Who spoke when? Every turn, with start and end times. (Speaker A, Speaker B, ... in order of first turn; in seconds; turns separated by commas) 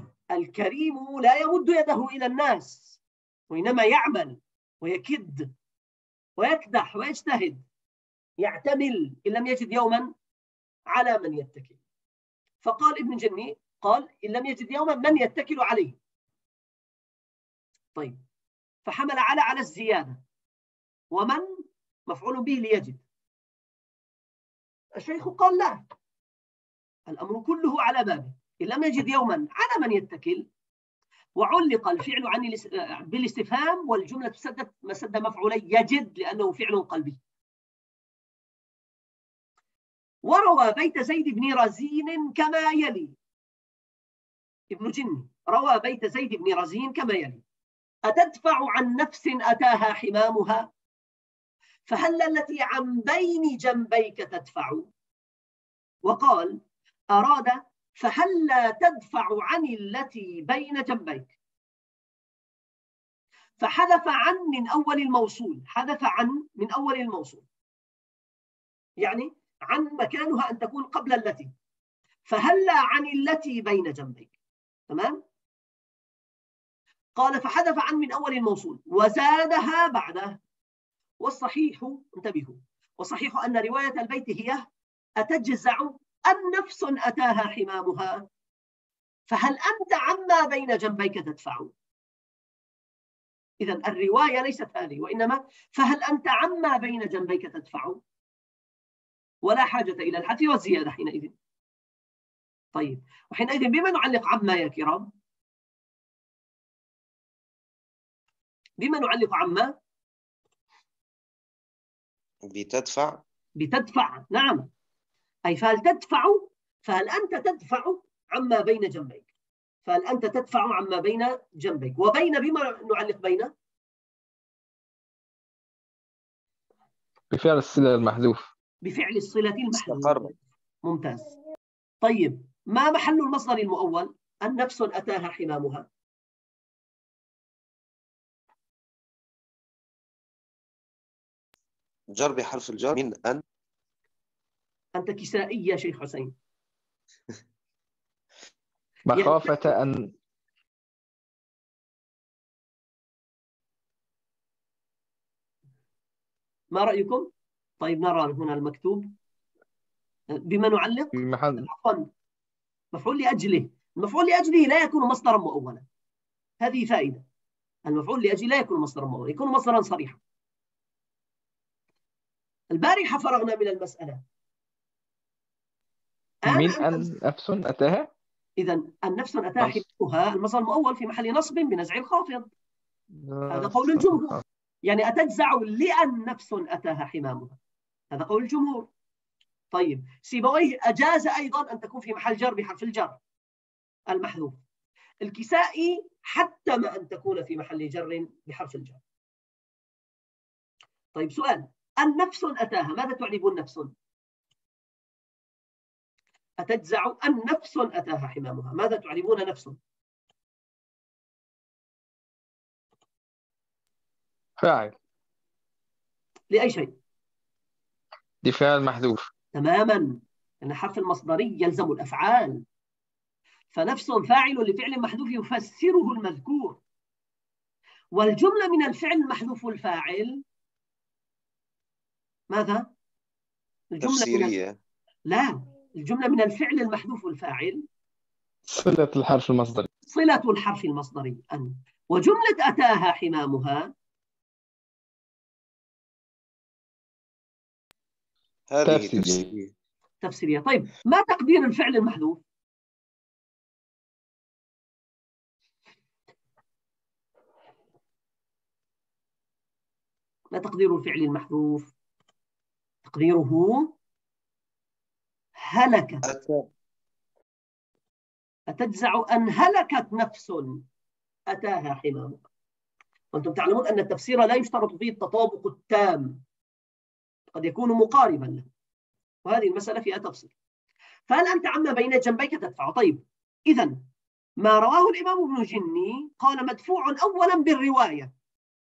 Speaker A: 0.3-5.5, Speaker A: 6.4-7.6, Speaker A: 8.4-10.1, Speaker A: 10.9-11.8, Speaker A: 12.6-16.0, Speaker A: 18.8-20.2, Speaker A: 21.1-21.4, Speaker A: 22.1-23.0, Speaker A: 25.0-25.8, Speaker A: 27.1-30.5, Speaker A: 31.4-37.2, Speaker A: 40.2-43.1, Speaker A: 44.7-47.4, Speaker A: 48.1-50.7, Speaker A: 51.9-54.9, Speaker A: 56.0-56.6, Speaker A: 57.1-61.3, Speaker A: 63.6-67.4, Speaker A: 69.0-71.5, Speaker A: 72.3-74.3, Speaker A: 74.9-75.2, Speaker A: 77.2-80.4, Speaker A: 81.2-88.3, Speaker A: 89.3-91.7, Speaker A: 93.6-98.0, Speaker A: 99.4-101.3, Speaker A: 102.7-105.1, Speaker A: 108.8-109.8, Speaker B: 112.5-113.2, Speaker A: 113.6-114.7, Speaker A: 115.5-119.3, Speaker A: 119.8-123.5, Speaker C: 127.3-128.5, Speaker A: 128.8-130.3, Speaker B: 129.7-130.3, Speaker A: 130.8-131.3, Speaker A: 132.0-135.9, Speaker B: 142.1-143.4, Speaker A: 144.9-146.3, Speaker C: 149.1-150.1, Speaker A: 149.1-149.7, Speaker A: 156.7-159.1, Speaker A: 160.3-162.1, Speaker C: 161.1-161.7, Speaker A: 162.9-165.8, Speaker A: 166.6-167.2, Speaker A: 167.9-170.2, Speaker A: 172.7-174.2, Speaker A: 176.4-177.1, Speaker C: 176.5-178.1, Speaker A: 178.6-182.5, Speaker C: 183.2-184.4, Speaker A: 183.5-187.6, Speaker A: 188.1-188.9, Speaker A: 189.7-193.2, Speaker A: 194.1-194.6, Speaker A: 195.2-199.0, Speaker A: 201.2-203.9, Speaker A: 206.6-209.8, Speaker C: 214.6-214.9, Speaker A: 216.5-217.0, Speaker C: 218.4-219.3, Speaker A: 219.5-222.6, Speaker A: 223.7-226.8, Speaker A: 228.1-230.4, Speaker A: 232.5-232.9, Speaker A: 233.9-234.6, Speaker B: 234.0-234.8, Speaker A: 235.3-237.8, Speaker C: 238.7-239.9, Speaker A: 240.1-243.9, Speaker B: 248.7-249.7, Speaker C: 248.8-249.4, Speaker A: 250.2-252.4, Speaker A: 260.5-261.9, Speaker A: 263.0-263.9, Speaker A: 265.6-266.2, Speaker B: 266.2-266.6, Speaker A: 268.7-270.8, Speaker A: 271.5-272.4, Speaker A: 273.3-276.4, Speaker A: 277.5-278.7, Speaker A: 279.4-280.5, Speaker A: 281.3-284.0, Speaker A: 284.6-288.3